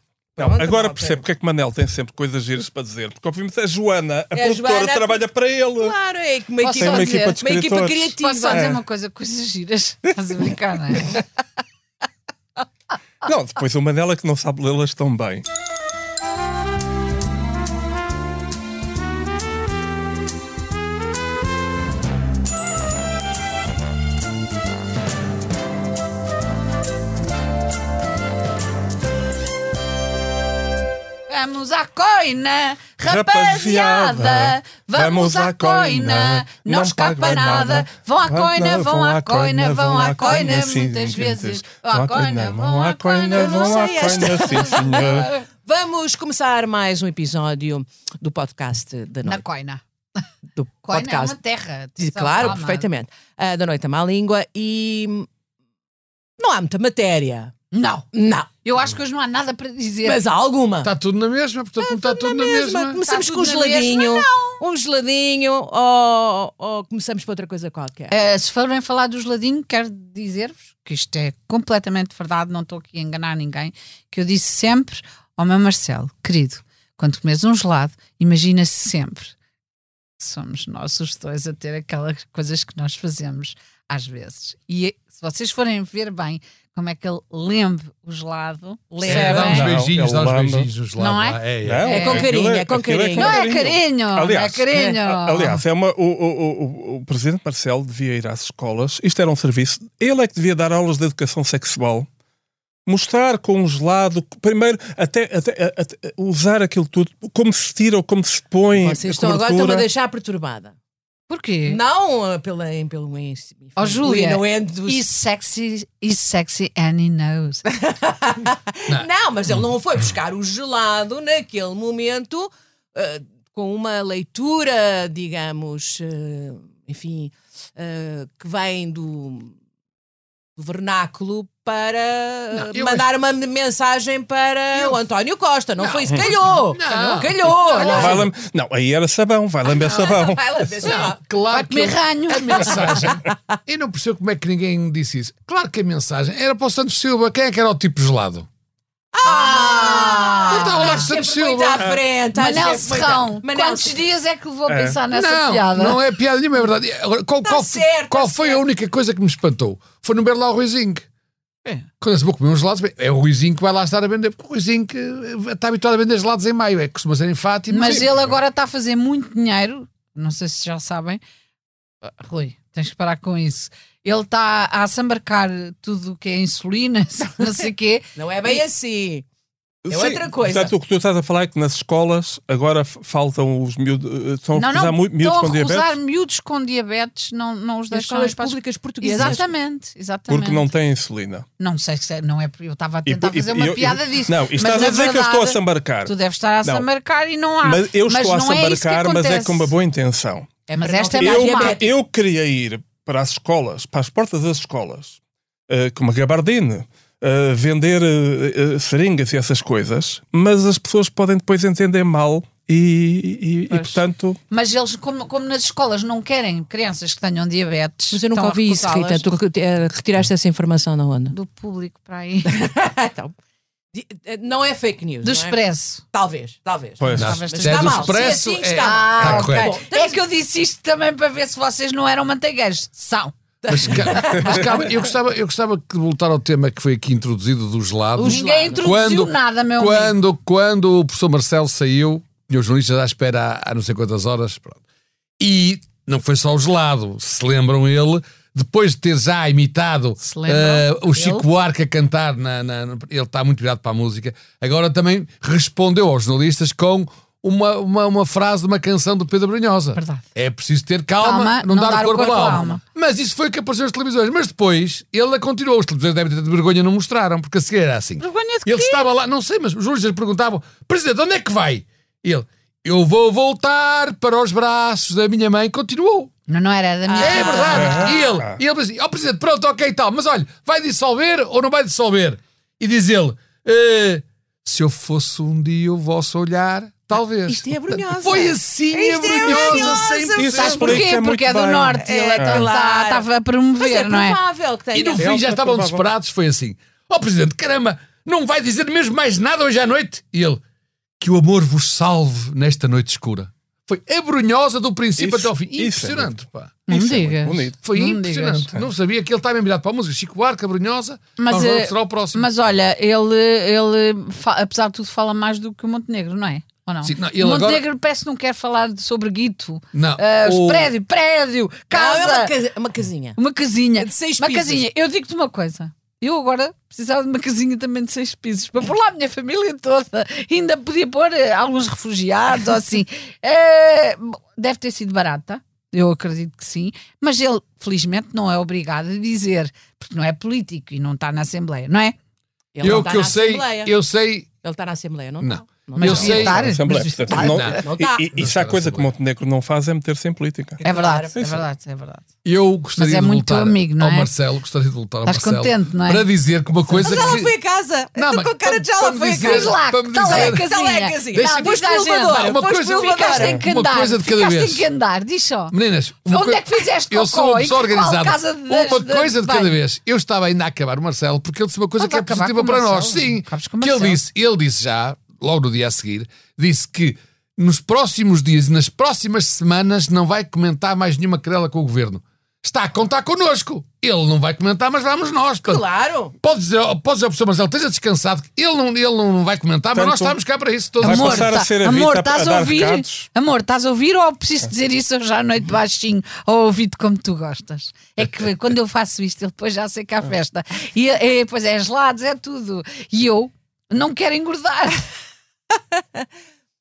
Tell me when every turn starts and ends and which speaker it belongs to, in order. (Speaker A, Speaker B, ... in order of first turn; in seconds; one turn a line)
Speaker A: 0.3-1.2
Speaker B: 0.4-5.9
Speaker A: 4.3-5.2
Speaker A: 5.8-8.7
Speaker C: 6.6-7.4
Speaker B: 6.8-8.8
Speaker C: 8.2-11.2
Speaker B: 13.2-15.4
Speaker C: 31.3-45.4
Speaker B: 33.1-45.3
Speaker A: 37.2-37.6
Speaker A: 43.3-49.4
Speaker C: 49.2-49.8
Speaker A: 50.5-51.4
Speaker C: 50.9-52.8
Speaker A: 52.0-55.3
Speaker A: 56.4-57.5
Speaker C: 57.7-58.1
Speaker A: 58.1-58.5
Speaker C: 58.6-60.2
Speaker A: 60.0-60.9
Speaker D: 60.8-63.0
Speaker A: 61.8-68.1
Speaker C: 63.1-64.6
Speaker C: 68.1-79.3
Speaker C: 80.2-89.7
Speaker A: 89.0-89.7
Speaker D: 89.0-92.0
Speaker B: 89.3-90.7
Speaker C: 91.0-92.3
Speaker B: 91.6-102.1
Speaker A: 91.9-93.5
Speaker C: 93.1-95.6
Speaker B: 102.8-109.8
Speaker A: 108.7-110.7
Speaker C: 111.3-111.8
Speaker A: 111.7-115.0
Speaker C: 113.8-117.6
Speaker A: 117.7-129.5
Speaker A: 130.6-138.3
Speaker D: 132.5-133.1
Speaker D: 134.7-135.0
Speaker D: 135.8-138.2
Speaker C: 137.7-138.2
Speaker B: 137.8-140.9
Speaker A: 139.6-141.2
Speaker D: 140.8-148.5
Speaker C: 141.5-143.1
Speaker A: 142.6-143.4
Speaker A: 149.1-154.0
Speaker C: 149.2-151.1
Speaker D: 150.5-151.8
Speaker C: 152.3-156.0
Speaker B: 154.7-155.0
Speaker D: 155.1-161.0
Speaker A: 157.4-158.6
Speaker D: 162.0-168.3
Speaker C: 167.7-171.2
Speaker C: 172.0-178.6
Speaker A: 178.2-179.2
Speaker B: 179.8-185.9
Speaker A: 179.9-180.7
Speaker C: 184.6-190.7
Speaker A: 187.9-189.5
Speaker B: 190.3-191.4
Speaker C: 191.6-199.7
Speaker B: 193.0-196.8
Speaker B: 197.6-200.5
Speaker C: 200.7-201.8
Speaker A: 200.7-201.9
Speaker B: 201.2-205.2
Speaker B: 205.7-214.4
Speaker A: 213.7-214.0
Speaker C: 214.5-219.2
Speaker A: 218.1-221.3
Speaker C: 221.3-222.5
Speaker A: 222.4-223.3
Speaker A: 223.9-225.6
Speaker C: 225.2-226.0
Speaker A: 226.1-230.2
Speaker B: 227.0-227.4
Speaker C: 227.1-233.3
Speaker D: 227.2-229.7
Speaker A: 233.6-234.9
Speaker D: 233.7-244.8
Speaker C: 233.9-234.4
Speaker A: 238.2-238.9
Speaker C: 238.2-240.1
Speaker D: 245.4-276.3
Speaker C: 250.2-251.4
Speaker C: 259.9-260.2
Speaker C: 261.2-262.8
Speaker A: 262.3-262.8
Speaker C: 268.2-269.1
Speaker C: 276.5-278.1
Speaker A: 277.1-278.3
Speaker D: 277.2-291.1
Speaker B: 277.8-278.6
Speaker A: 287.5-290.7
Speaker B: 289.4-292.7
Speaker C: 290.6-294.4
Speaker A: 292.0-293.3
Speaker A: 293.8-295.3
Speaker D: 294.9-300.6
Speaker B: 295.2-296.0
Speaker D: 301.2-312.5
Speaker B: 305.2-306.4
Speaker C: 306.9-308.7
Speaker B: 307.4-307.7
Speaker C: 311.4-322.5
Speaker D: 317.0-317.8
Speaker D: 319.9-320.9
Speaker A: 321.9-323.4
Speaker C: 323.4-342.1
Speaker A: 323.9-324.8
Speaker A: 342.7-343.9
Speaker D: 342.8-344.5
Speaker A: 344.6-348.3
Speaker D: 345.4-346.6
Speaker C: 346.0-347.8
Speaker B: 346.1-350.8
Speaker D: 347.3-347.8
Speaker D: 348.3-349.1
Speaker A: 350.8-351.3
Speaker C: 350.8-352.2
Speaker D: 352.4-357.5
Speaker C: 352.9-354.3
Speaker C: 355.2-356.3
Speaker C: 356.9-357.3
Speaker A: 357.0-363.6
Speaker D: 358.1-360.6
Speaker C: 359.4-365.7
Speaker D: 361.3-361.7
Speaker D: 362.3-364.9
Speaker D: 365.7-385.8
Speaker C: 366.2-369.8
Speaker C: 372.0-374.2
Speaker A: 385.6-386.3
Speaker D: 386.4-391.5
Speaker B: 389.9-390.4
Speaker B: 391.0-393.3
Speaker C: 391.0-405.0
Speaker A: 406.0-406.3